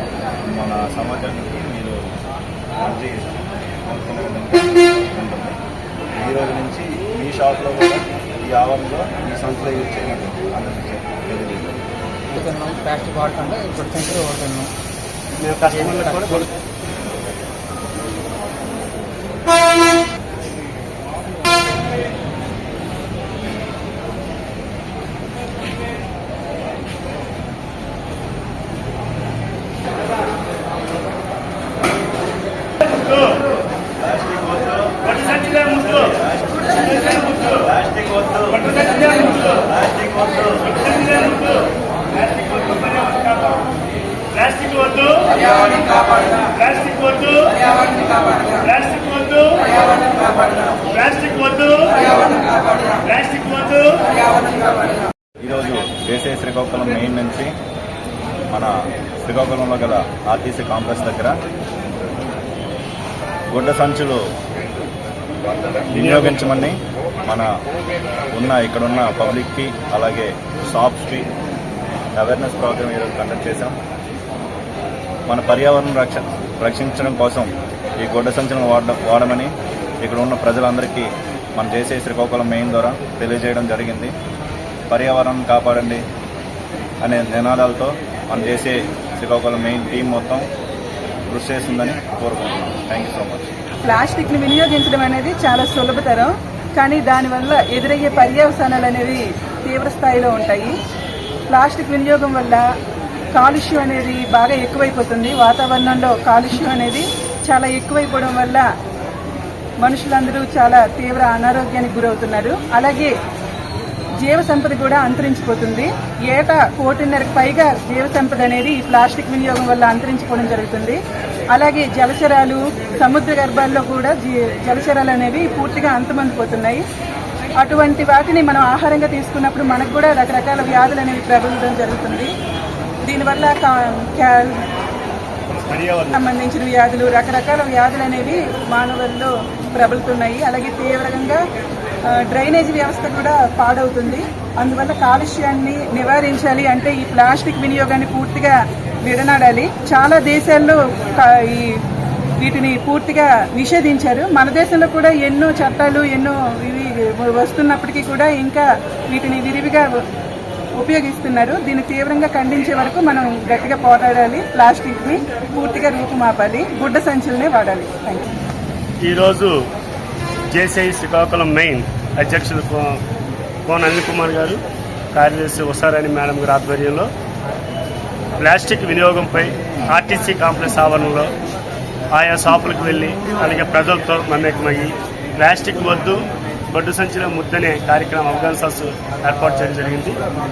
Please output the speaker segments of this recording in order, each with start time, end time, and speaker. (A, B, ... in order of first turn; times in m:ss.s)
0:00.4-0:02.1 A
0:02.8-0:05.6 A
0:06.2-0:11.7 A
0:12.3-0:14.7 B
0:15.4-0:16.5 C
0:15.7-0:16.4 B
0:34.0-0:35.1 A
0:35.0-0:36.2 C
0:35.9-0:36.4 A
0:37.0-0:37.5 C
0:37.2-0:38.7 A
0:38.5-0:39.7 C
0:40.5-0:43.8 C
0:44.3-0:54.2 C
0:55.4-0:57.5 A
0:58.5-1:01.4 A
1:03.5-1:04.3 A
1:05.9-1:07.5 A
1:06.0-1:06.3 C
1:08.3-1:11.3 A
1:12.2-1:13.8 A
1:15.3-1:24.2 A
1:24.9-1:26.0 A
1:27.0-1:30.5 A
1:31.3-1:33.5 A
1:33.8-1:40.8 D
1:41.5-1:42.6 D
1:43.4-1:48.7 D
1:49.8-1:53.2 D
1:54.2-2:01.0 D
2:01.5-2:06.8 D
2:07.6-2:12.3 D
2:13.0-2:14.6 D
2:15.7-2:16.2 C
2:16.1-2:21.4 D
2:22.1-2:31.8 D
2:32.4-2:39.9 D
2:40.8-2:48.3 D
2:49.0-2:49.6 C
2:50.5-2:53.0 C
2:53.7-2:54.6 C
2:55.1-2:57.1 C
2:58.4-3:01.3 C
3:02.1-3:10.2 C